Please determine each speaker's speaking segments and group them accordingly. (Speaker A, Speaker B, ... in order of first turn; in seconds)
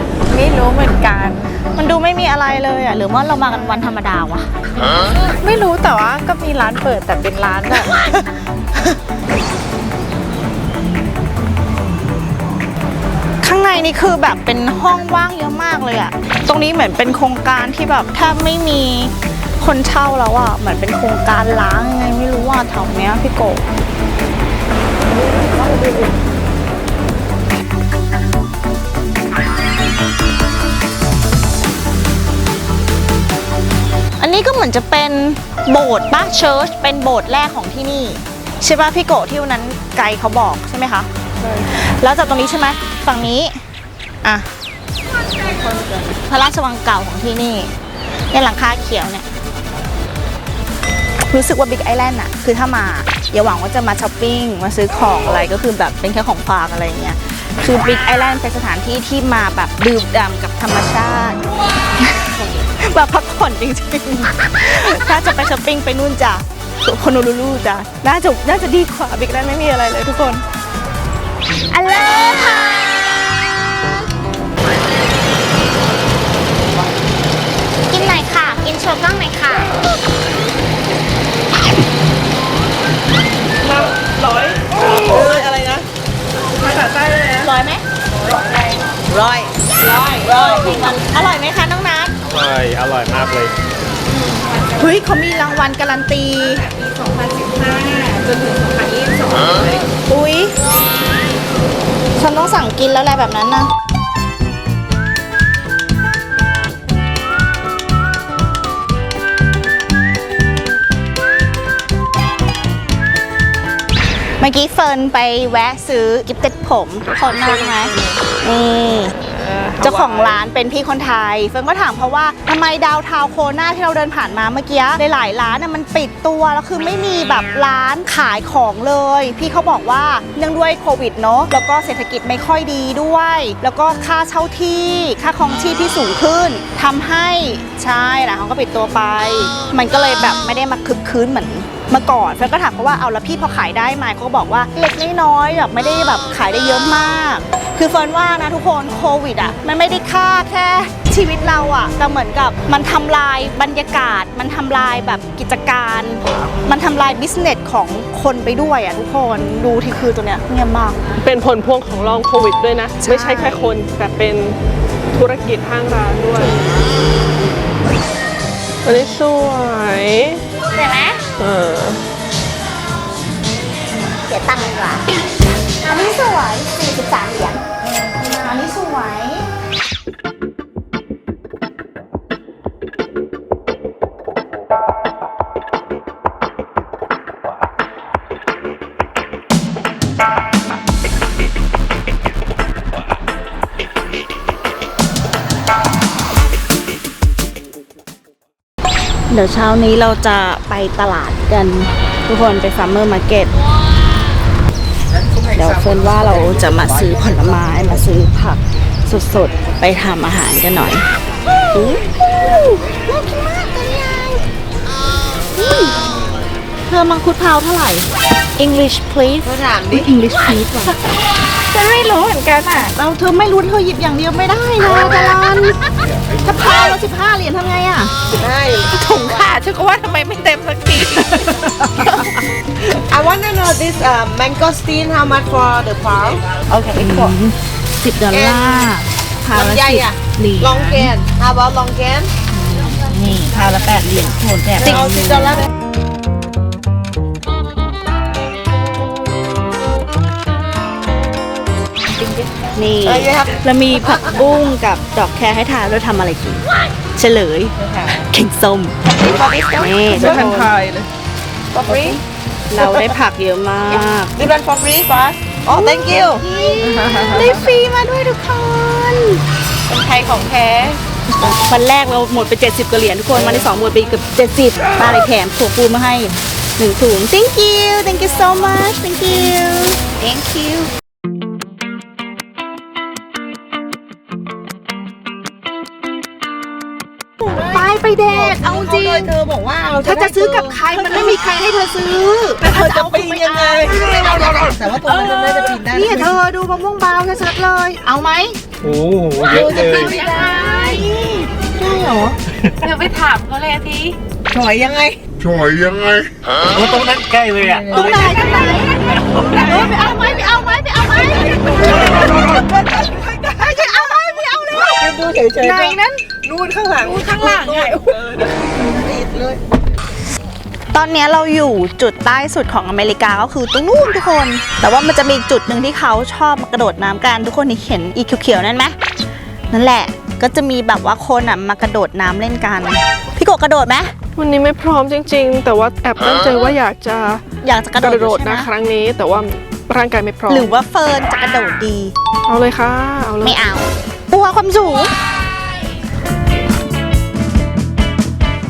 Speaker A: 0.3-1.5, 5.2-8.0, 94.2-94.8, 96.4-99.8, 218.6-219.6, 221.7-222.9, 228.9-232.2, 252.1-252.5, 259.1-260.1, 261.7-262.2, 264.4-265.4, 269.9-271.0, 300.2-300.9, 302.8-304.2, 317.1-317.8
Speaker B: 1.8-4.5, 13.4-23.7, 34.2-41.1, 41.7-43.6, 46.1-47.7, 48.3-49.3, 51.3-70.4, 71.7-72.9, 77.9-79.7, 85.0-85.7, 87.4-87.8, 89.1-92.1, 94.8-96.7, 100.0-100.5, 102.2-103.7, 114.4-119.1, 119.8-161.0, 163.0-163.7, 170.7-171.2, 174.3-175.1, 175.8-179.5, 199.3-203.5, 205.5-211.0, 211.7-214.4, 215.5-216.2, 216.9-218.1, 219.9-221.0, 222.9-225.8, 226.4-228.1, 236.9-241.2, 242.5-245.5, 252.7-258.9, 259.8-260.7, 262.7-264.3, 265.7-269.4, 271.4-280.9, 287.4-289.3, 290.0-298.6, 300.4-301.4, 307.9-315.1, 315.6-316.2, 317.1-318.0, 320.9-328.9, 329.7-334.1, 337.6-338.7, 340.5-342.1, 343.4-345.1
Speaker C: 41.4-41.7, 83.6-85.8, 86.5-87.5, 117.1-118.2, 119.2-120.4, 161.2-164.6, 165.2-166.6, 168.8-170.4, 171.4-172.0, 260.1-261.1, 266.9-267.5, 334.4-337.4, 338.0-340.7, 342.5-343.6
Speaker D: 92.3-93.5, 298.8-300.1, 302.6-302.9, 306.7-308.4
Speaker E: 219.4-220.1, 224.8-225.4, 228.3-229.5, 232.9-237.4, 238.3-238.9, 239.5-242.3, 244.8-245.7, 253.0-254.5, 259.1-260.3, 261.8-262.2, 265.6-266.4, 287.5-290.9, 292.6-296.4, 299.4-302.4, 304.5-305.2, 307.7-308.4, 314.9-319.6